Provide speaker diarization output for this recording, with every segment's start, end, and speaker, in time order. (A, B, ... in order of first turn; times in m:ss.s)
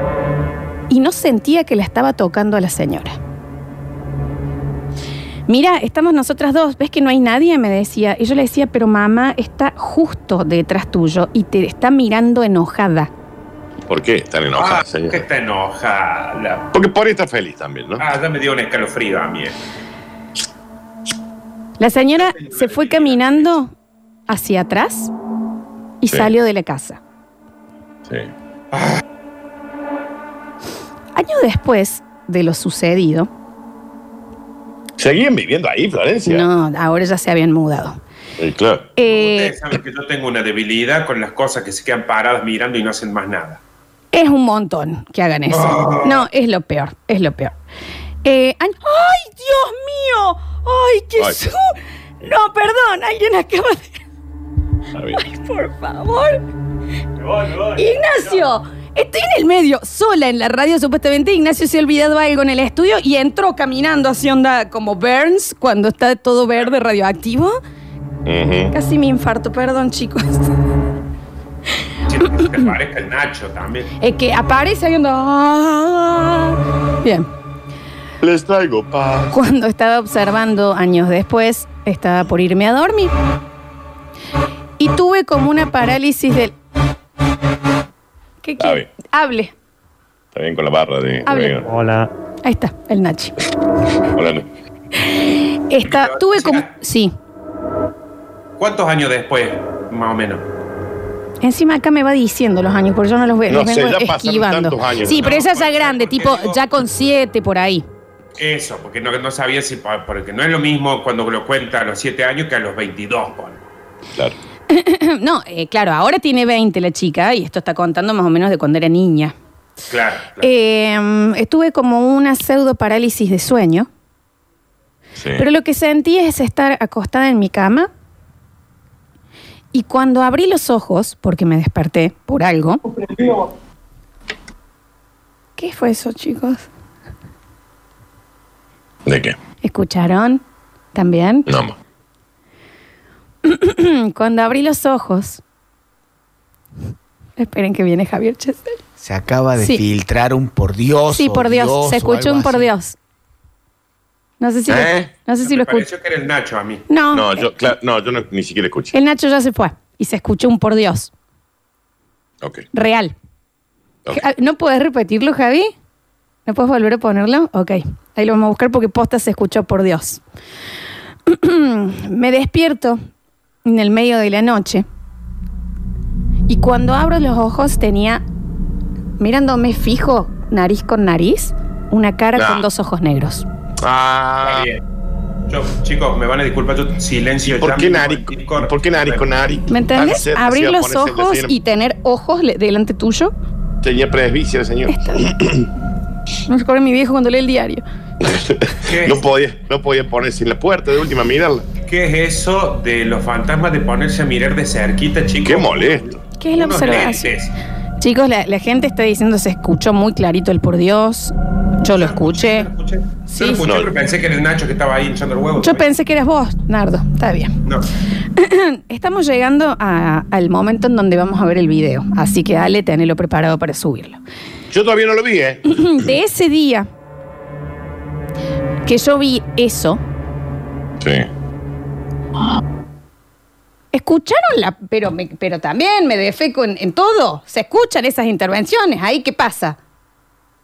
0:00.9-0:03.2 A
0:05.5-0:13.1 A
0:13.9-0:15.2 B
0:14.6-0:16.7 C
0:16.7-0:18.0 B
0:18.0-0:19.5 C
0:21.8-0:23.7 A
0:22.2-0:23.5 C
0:24.3-0:25.1 A
0:26.0-0:27.0 A
0:31.1-0:33.3 A
0:35.0-0:36.5 B
0:36.2-0:38.0 A
0:38.4-0:38.9 B
0:39.0-0:39.5 A
0:39.0-0:43.6 C
0:44.1-0:47.5 A
0:45.5-0:46.2 C
0:48.2-0:51.6 A
0:52.2-0:53.9 A
0:54.9-0:55.2 B
0:55.2-0:56.4 A
0:57.7-1:07.6 A
1:08.2-1:08.7 B
1:08.7-1:10.5 A
1:12.1-1:13.9 C
1:14.0-1:17.3 A
1:18.2-1:19.3 B
1:19.3-1:23.1 A
1:24.8-1:26.5 A
1:28.4-1:29.5 A
1:28.6-1:28.9 B
1:30.3-1:31.7 B
1:31.2-1:31.6 A
1:32.4-1:33.4 A
1:34.1-1:34.5 B
1:35.7-1:37.1 A
1:35.8-1:36.7 C
1:38.6-1:40.4 C
1:41.4-1:47.8 A
1:43.5-1:45.3 B
1:45.0-1:46.6 C
1:48.4-1:53.6 C
1:54.7-1:59.3 A
1:59.9-2:00.5 C
2:00.4-2:03.9 A
2:05.2-2:05.4 B
2:05.4-2:07.9 A
2:09.7-2:12.8 A
2:15.6-2:16.7 A
2:19.0-2:19.4 B
2:19.6-2:20.4 A
2:20.9-2:21.5 A
2:21.5-2:21.8 B
2:23.4-2:25.4 A
2:27.4-2:28.8 A
2:29.0-2:32.7 D
2:29.6-2:29.8 A
2:31.1-2:33.0 A
2:34.4-2:35.8 A
2:34.7-2:35.1 B
2:35.4-2:36.8 C
2:36.9-2:37.5 A
2:37.1-2:38.9 B
2:38.9-2:41.1 A
2:42.7-2:43.1 A
2:44.1-2:45.7 A
2:46.5-2:50.2 A
2:51.3-2:53.0 A
2:53.6-2:54.8 A
2:56.5-2:58.2 A
2:59.2-3:03.4 A
3:02.3-3:02.6 B
3:03.8-3:04.7 B
3:04.4-3:04.8 C
3:05.5-3:09.2 C
3:07.4-3:11.5 B
3:09.7-3:13.3 A
3:13.8-3:15.6 B
3:14.9-3:15.3 A
3:16.5-3:17.8 A
3:18.2-3:21.6 B
3:18.9-3:19.2 C
3:21.9-3:27.5 C
3:25.4-3:26.1 B
3:26.4-3:27.3 A
3:28.0-3:32.7 A
3:31.9-3:35.9 C
3:33.3-3:33.6 A
3:33.6-3:33.9 B
3:35.6-3:37.5 A
3:38.4-3:44.2 A
3:44.7-3:46.1 B
3:45.7-3:46.9 A
3:48.8-3:50.0 A
3:51.0-3:51.3 B
3:53.9-3:59.8 A